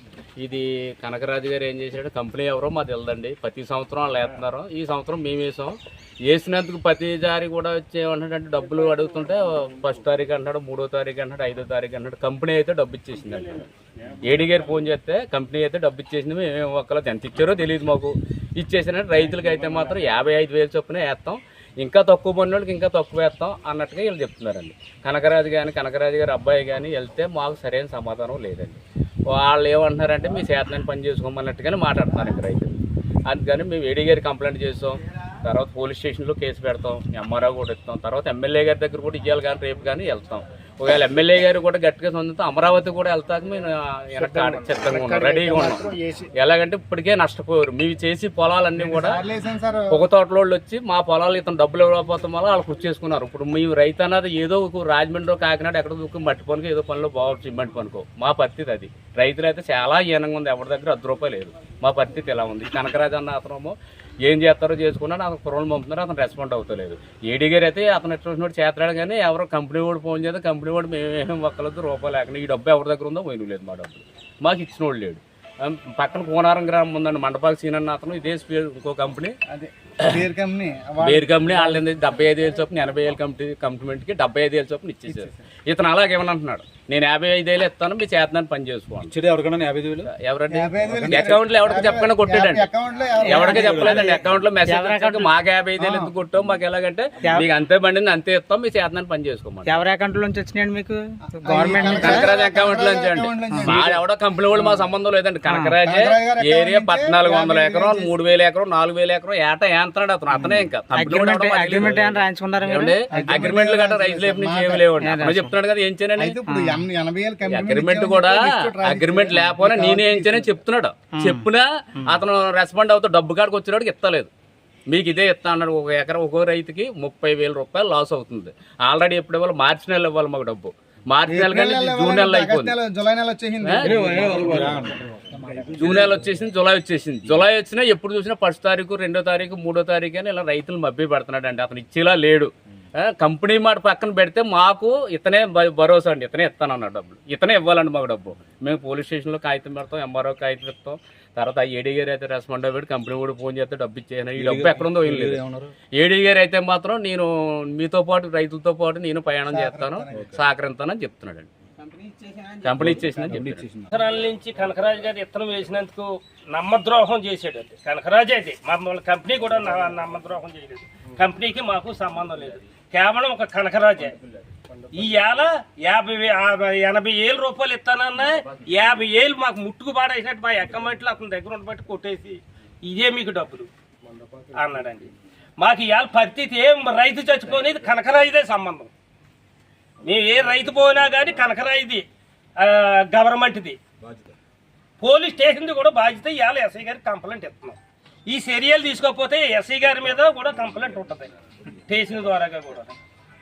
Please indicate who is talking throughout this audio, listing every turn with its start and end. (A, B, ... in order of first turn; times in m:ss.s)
0:00.4-0:05.8 A
0:06.3-0:13.7 A
0:14.2-0:49.2 A
0:44.1-0:46.3 B
0:48.8-0:50.0 B
0:49.9-1:19.3 A
1:19.5-1:21.9 B
1:21.0-1:29.1 A
1:29.1-1:30.1 C
1:30.0-1:32.7 A
1:30.5-1:34.1 B
1:33.2-1:39.8 A
1:33.3-1:33.9 C
1:33.8-1:35.3 D
1:35.8-1:36.1 B
1:37.2-1:37.5 D
1:39.6-1:42.2 D
1:41.3-1:44.8 B
1:41.8-1:56.4 A
1:45.8-1:48.1 B
1:50.4-1:50.6 B
1:50.9-1:53.0 D
1:53.1-1:54.8 B
1:55.0-1:55.5 D
1:56.2-2:00.6 B
1:56.5-1:56.8 D
1:57.5-2:04.3 A
2:01.1-2:01.4 D
2:04.9-2:12.8 A
2:11.3-2:14.9 B
2:13.6-2:14.0 A
2:13.8-2:15.0 C
2:15.5-2:16.0 B
2:15.6-2:16.1 C
2:15.8-2:41.5 A
2:34.4-2:35.7 C
2:39.5-2:40.3 B
2:42.0-2:42.4 D
2:42.6-2:43.7 A
2:42.8-2:43.8 C
2:43.9-2:54.2 E
2:54.9-3:03.7 E
3:04.5-3:08.9 E
3:10.0-3:12.0 E
3:12.6-3:13.8 E
3:15.0-3:22.9 E